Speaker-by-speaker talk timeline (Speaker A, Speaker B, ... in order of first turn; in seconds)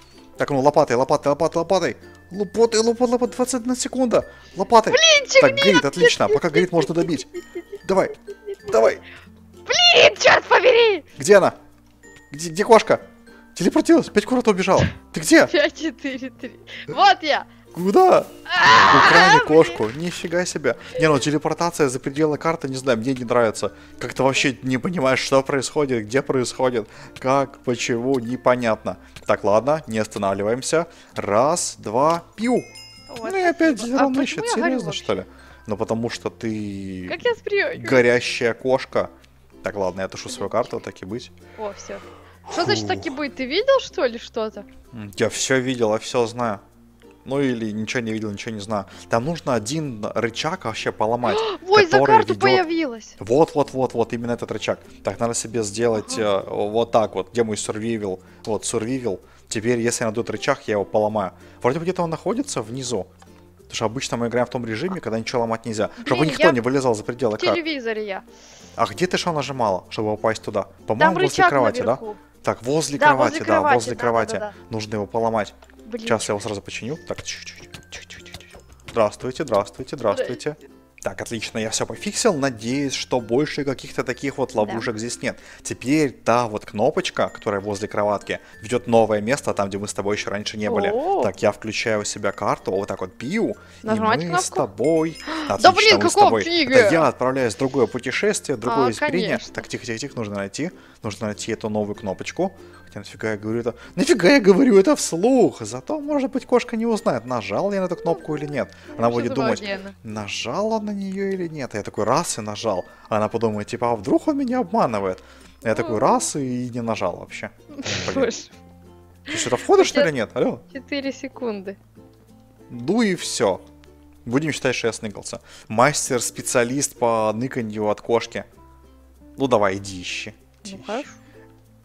Speaker A: 0.4-7.3, 7.8-8.2, 8.7-9.0, 11.2-11.6, 12.3-13.0, 13.6-15.5, 17.7-32.7, 33.2-37.2, 37.8-39.1, 39.6-41.3, 42.5-43.2, 44.9-46.6, 47.2-52.6, 53.2-63.1, 63.7-67.6, 68.8-75.5, 76.0-118.3, 119.3-120.6, 122.7-123.6, 124.2-128.5, 129.4-131.1
Speaker B: 4.9-7.6, 8.4-9.0, 9.7-11.1, 15.5-17.5, 18.5-19.8, 33.1-35.2, 37.1-38.1, 40.3-40.8, 41.6-44.7, 51.2-53.2, 55.9-56.3, 66.0-66.6, 67.4-68.3, 71.0-72.2, 73.0-74.5, 75.8-76.3, 80.1-80.4, 84.6-84.9, 90.7-91.3, 93.8-94.7, 95.3-97.1, 98.6-99.6, 108.1-108.4, 108.9-110.0, 115.7-116.3, 117.7-118.5, 119.3-120.1, 120.7-121.8, 130.7-131.2